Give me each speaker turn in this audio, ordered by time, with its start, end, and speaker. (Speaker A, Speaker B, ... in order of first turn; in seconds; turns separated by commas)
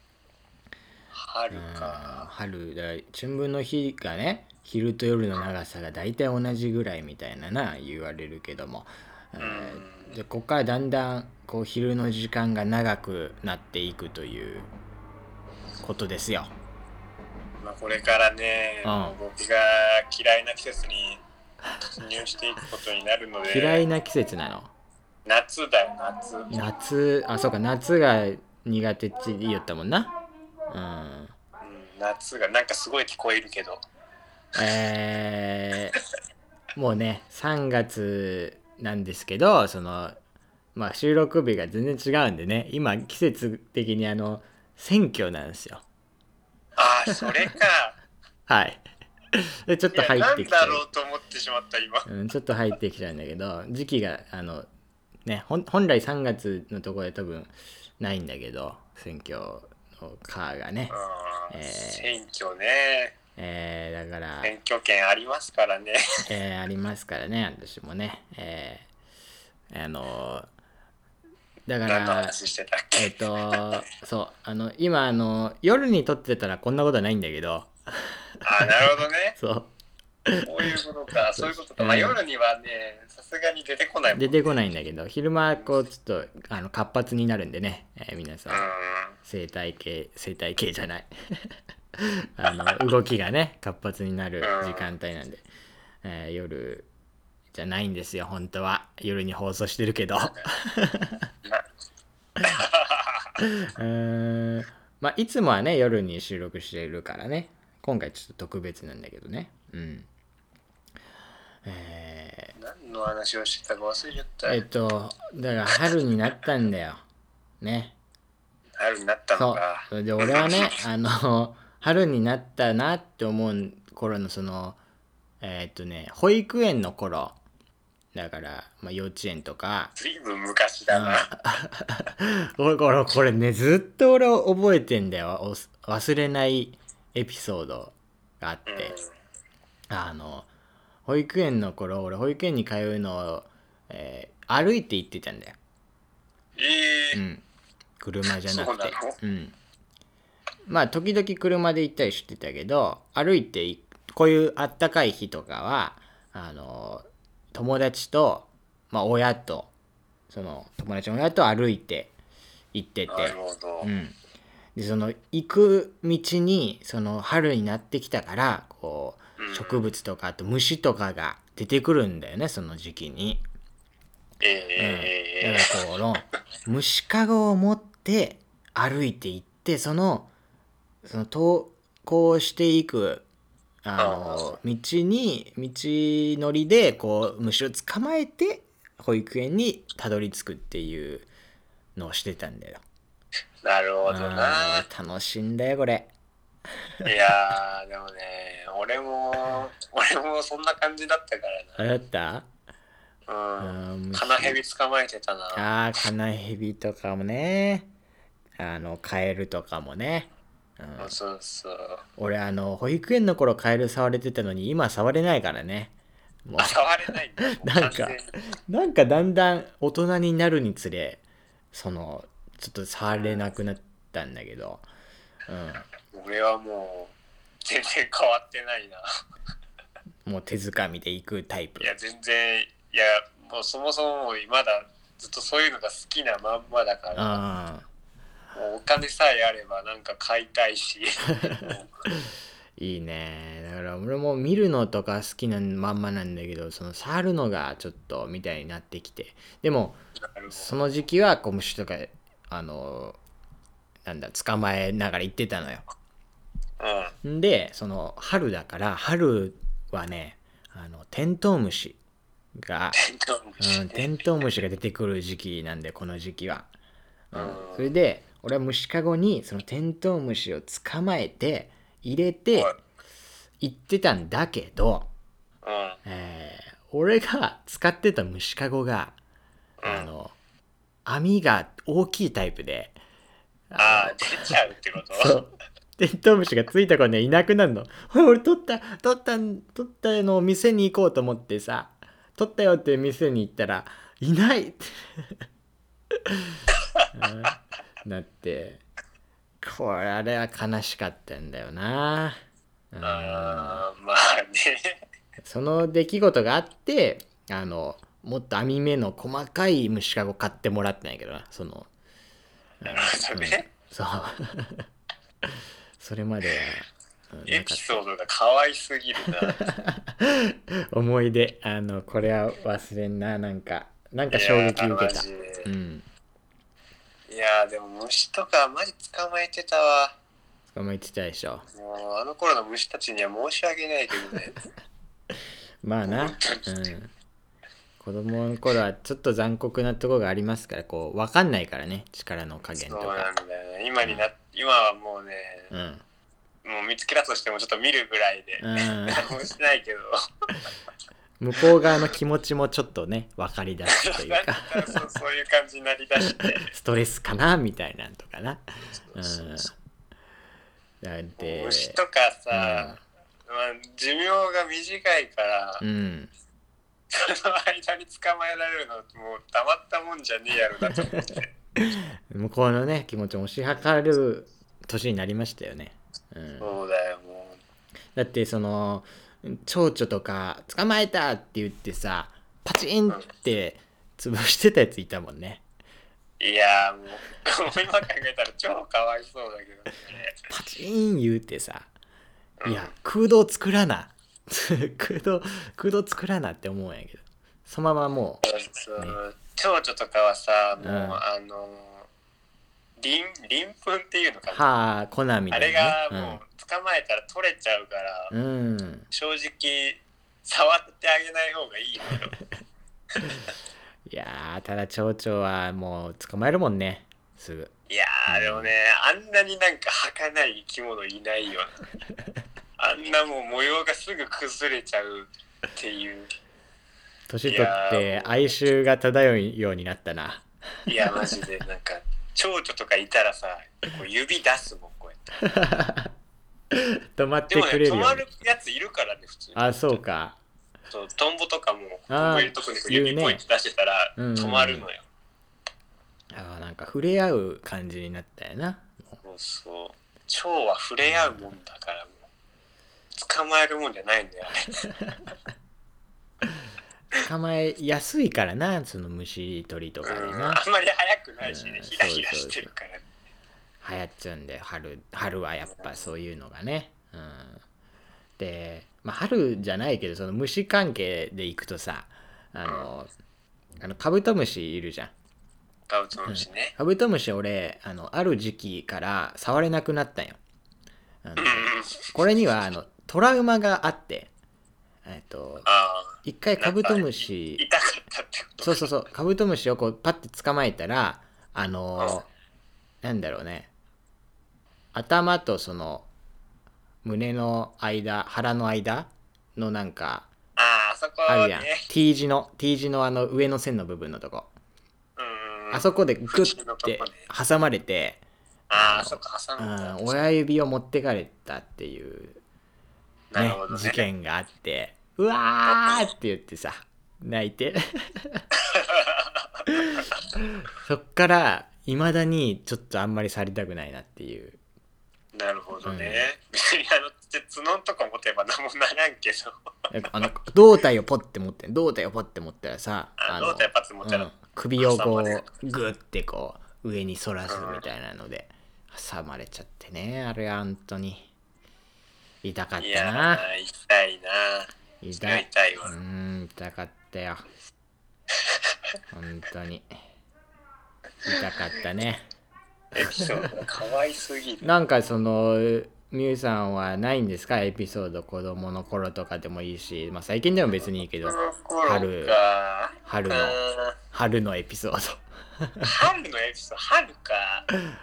Speaker A: 1.1-2.3, Speaker B: 1.5-14.7, Speaker A: 9.4-10.2, Speaker B: 15.8-16.5, Speaker A: 17.6-21.2, Speaker B: 18.8-19.2, Speaker A: 21.9-23.8, Speaker B: 23.5-24.7, Speaker A: 25.2-26.5, Speaker B: 26.5-30.1, Speaker B: 30.7-31.3, Speaker A: 31.6-33.8, Speaker B: 34.6-35.9, Speaker B: 36.8-40.2, Speaker B: 40.8-45.8, Speaker A: 46.8-48.0, Speaker B: 48.5-50.8, Speaker A: 49.9-52.1, Speaker B: 52.1-54.7, Speaker B: 55.2-61.0, Speaker A: 60.9-63.1, Speaker B: 61.5-62.2, Speaker B: 63.4-64.5, Speaker A: 64.4-66.0, Speaker B: 66.3-68.9, Speaker B: 69.7-70.5, Speaker B: 71.7-72.3, Speaker A: 71.9-73.8, Speaker B: 73.0-79.7, Speaker A: 78.4-79.4, Speaker B: 80.2-80.7, Speaker A: 80.4-84.6, Speaker B: 81.4-82.2, Speaker B: 84.1-88.7, Speaker A: 88.5-89.2, Speaker B: 89.2-91.1, Speaker B: 92.0-95.5, Speaker A: 94.4-94.9, Speaker B: 96.0-96.9, Speaker B: 97.5-101.3, Speaker A: 100.2-100.5, Speaker A: 102.5-103.3, Speaker B: 103.4-110.1, Speaker B: 111.7-112.5, Speaker A: 112.6-114.6, Speaker B: 114.5-117.0, Speaker B: 117.6-118.0, Speaker A: 118.8-120.8, Speaker B: 119.4-124.8, Speaker B: 125.4-127.4, Speaker B: 128.1-129.9, Speaker A: 129.9-131.4, Speaker B: 130.9-138.9, Speaker A: 138.7-139.1, Speaker B: 139.9-140.5, Speaker B: 141.1-145.6, Speaker A: 146.6-147.2, Speaker B: 147.1-147.4, Speaker B: 148.0-149.6, Speaker A: 148.4-149.2, Speaker B: 150.7-159.7, Speaker B: 160.3-162.1, Speaker B: 162.7-164.2, Speaker A: 163.1-163.9, Speaker B: 164.8-173.4, Speaker A: 169.4-169.9, Speaker A: 174.4-175.8, Speaker B: 174.8-180.3, Speaker B: 181.0-183.2, Speaker B: 183.8-191.3, Speaker A: 184.0-184.6, Speaker B: 191.9-192.8, Speaker A: 193.6-194.9, Speaker B: 194.1-196.1, Speaker A: 197.0-201.9, Speaker B: 201.8-202.5, Speaker A: 203.3-205.6, Speaker B: 203.6-204.6, Speaker B: 205.6-207.9, Speaker B: 208.6-211.1, Speaker A: 211.0-212.0, Speaker B: 212.2-215.9, Speaker B: 216.4-216.8, Speaker A: 216.6-218.4, Speaker B: 217.4-221.2, Speaker B: 221.7-224.9, Speaker B: 225.5-225.9, Speaker A: 226.1-227.1, Speaker A: 227.6-229.0, Speaker B: 230.2-231.9, Speaker A: 231.8-237.4, Speaker B: 237.1-237.9, Speaker A: 238.6-241.9, Speaker B: 242.8-250.0, Speaker A: 250.3-250.7, Speaker B: 250.5-253.2, Speaker B: 254.1-255.8, Speaker A: 256.8-257.1, Speaker B: 257.2-262.0, Speaker B: 262.6-263.0, Speaker A: 262.9-264.1, Speaker B: 263.6-266.7, Speaker B: 267.3-272.7, Speaker A: 267.3-267.9, Speaker B: 273.6-275.1, Speaker A: 275.6-276.0, Speaker B: 276.1-279.2, Speaker A: 279.8-280.1, Speaker B: 279.9-280.4, Speaker B: 281.1-283.0, Speaker B: 283.7-284.6, Speaker A: 283.8-285.4, Speaker B: 285.1-295.3, Speaker B: 296.3-296.6, Speaker B: 297.1-298.8, Speaker B: 299.6-302.4, Speaker B: 302.9-303.9, Speaker A: 303.0-304.9, Speaker B: 305.4-311.9, Speaker B: 312.8-314.9, Speaker A: 312.9-313.6, Speaker B: 316.0-318.0, Speaker A: 317.5-319.7, Speaker B: 319.5-326.1, Speaker A: 324.3-325.7, Speaker A: 327.3-330.1, Speaker B: 330.7-331.7, Speaker A: 331.7-334.6, Speaker B: 335.8-337.1, Speaker A: 336.1-336.9, Speaker B: 338.0-343.3, Speaker A: 342.8-345.7, Speaker B: 345.7-346.0, Speaker A: 346.6-350.1, Speaker B: 348.6-349.3, Speaker B: 351.4-355.0, Speaker A: 353.9-356.7, Speaker B: 356.2-358.6, Speaker A: 359.0-359.7, Speaker B: 359.1-359.7, Speaker B: 361.0-362.0, Speaker A: 361.4-365.8, Speaker B: 362.5-363.0, Speaker B: 365.8-366.3, Speaker A: 367.1-371.5, Speaker B: 371.8-376.8, Speaker A: 376.6-377.6, Speaker B: 378.1-385.6, Speaker A: 386.4-390.4, Speaker B: 390.5-391.9, Speaker A: 392.6-392.9, Speaker B: 392.6-398.4, Speaker A: 398.4-402.1, Speaker B: 400.8-401.2, Speaker A: 403.0-404.7, Speaker B: 404.5-406.4, Speaker A: 405.5-408.3, Speaker B: 408.3-409.1, Speaker A: 409.1-412.3, Speaker B: 414.1-417.7, Speaker A: 417.9-421.8, Speaker B: 418.3-418.7, Speaker A: 422.8-426.3, Speaker B: 427.3-430.4, Speaker A: 427.5-428.4, Speaker A: 430.9-435.2, Speaker B: 435.4-436.1, Speaker B: 436.7-438.2, Speaker A: 437.5-440.0, Speaker B: 439.6-440.4, Speaker A: 440.9-445.1, Speaker B: 442.1-443.4, Speaker B: 444.2-444.9, Speaker B: 446.3-449.2, Speaker A: 449.2-452.1, Speaker B: 451.1-451.4, Speaker A: 453.1-454.9, Speaker B: 457.1-460.6, Speaker A: 460.0-463.0, Speaker B: 461.4-462.7, Speaker B: 463.8-467.6, Speaker B: 468.4-473.1, Speaker B: 473.8-475.1, Speaker A: 475.9-476.7, Speaker B: 476.3-480.4, Speaker B: 481.2-484.3, Speaker A: 481.4-482.0, Speaker B: 485.1-485.7, Speaker A: 485.6-488.9, Speaker B: 486.2-487.6, Speaker B: 488.6-492.3, Speaker A: 492.0-492.2, Speaker B: 493.0-493.7, Speaker B: 494.9-496.1, Speaker B: 497.0-500.3, Speaker A: 500.6-501.9, Speaker B: 501.3-504.5, Speaker A: 505.2-507.3, Speaker B: 505.7-508.2, Speaker A: 508.7-510.2, Speaker B: 508.7-512.4, Speaker A: 513.3-514.0, Speaker B: 513.4-518.4, Speaker A: 515.6-516.1, Speaker A: 518.7-519.5, Speaker B: 519.7-520.0, Speaker B: 520.6-524.6, Speaker A: 525.3-529.5, Speaker B: 525.9-526.3, Speaker B: 529.9-541.3, Speaker A: 533.2-535.5, Speaker A: 537.5-537.9, Speaker B: 542.4-543.4, Speaker A: 542.8-544.7, Speaker B: 545.0-547.5, Speaker A: 545.2-545.9, Speaker B: 549.1-549.9, Speaker B: 551.3-552.2, Speaker A: 552.9-554.6, Speaker B: 554.6-562.4, Speaker A: 561.2-564.0, Speaker B: 563.0-563.6, Speaker B: 564.1-565.9, Speaker A: 565.8-567.7